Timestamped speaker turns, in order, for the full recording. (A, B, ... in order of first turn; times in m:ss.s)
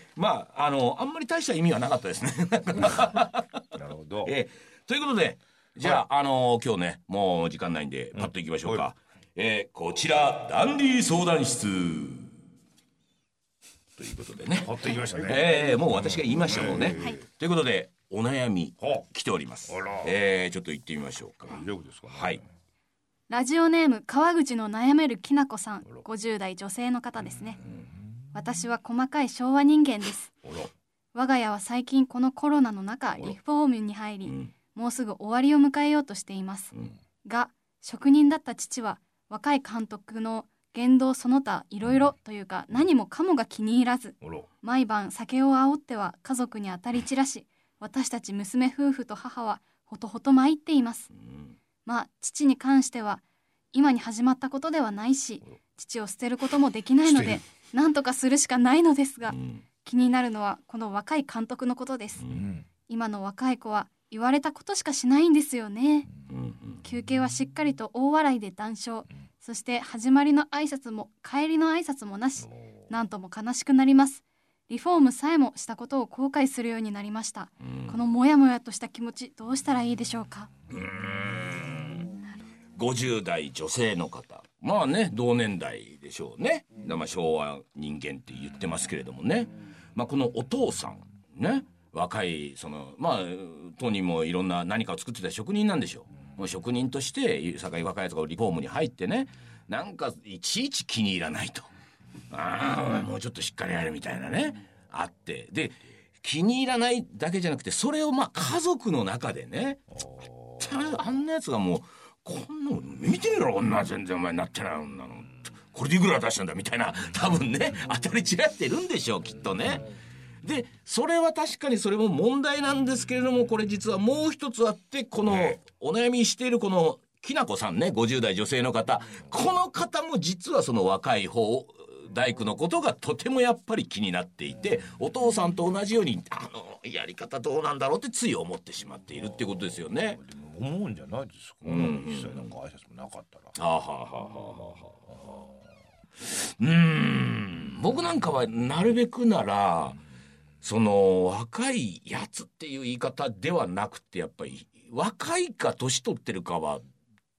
0:00.2-0:03.6 A
0:03.7-0:04.3 B
0:04.2-0:12.3 A
0:08.1-0:08.9 B
0:14.0-0:22.4 A
0:14.6-0:17.2 B
0:19.7-0:20.1 B
0:21.4-0:22.4 B
0:23.3-0:27.6 C
0:28.3-0:30.4 C
0:31.1-0:51.1 C
0:34.3-0:34.5 A
0:51.2-0:51.6 A
0:51.9-0:53.2 C
0:53.7-1:02.2 C
0:57.0-0:57.4 B
0:59.3-0:59.6 A
1:02.2-1:02.4 A
1:02.2-1:02.7 B
1:02.9-1:06.1 C
1:06.3-1:06.8 A
1:06.8-1:20.5 C
1:17.6-1:18.0 A
1:20.7-1:22.1 A
1:22.2-1:22.4 C
1:22.8-1:41.7 A
1:42.3-1:49.9 A
1:50.0-1:50.9 B
1:50.6-1:59.9 A
2:00.4-2:20.2 A
2:19.9-2:23.5 B
2:21.6-2:22.5 A
2:23.6-2:25.1 A
2:26.2-2:30.0 A
2:30.6-2:36.8 A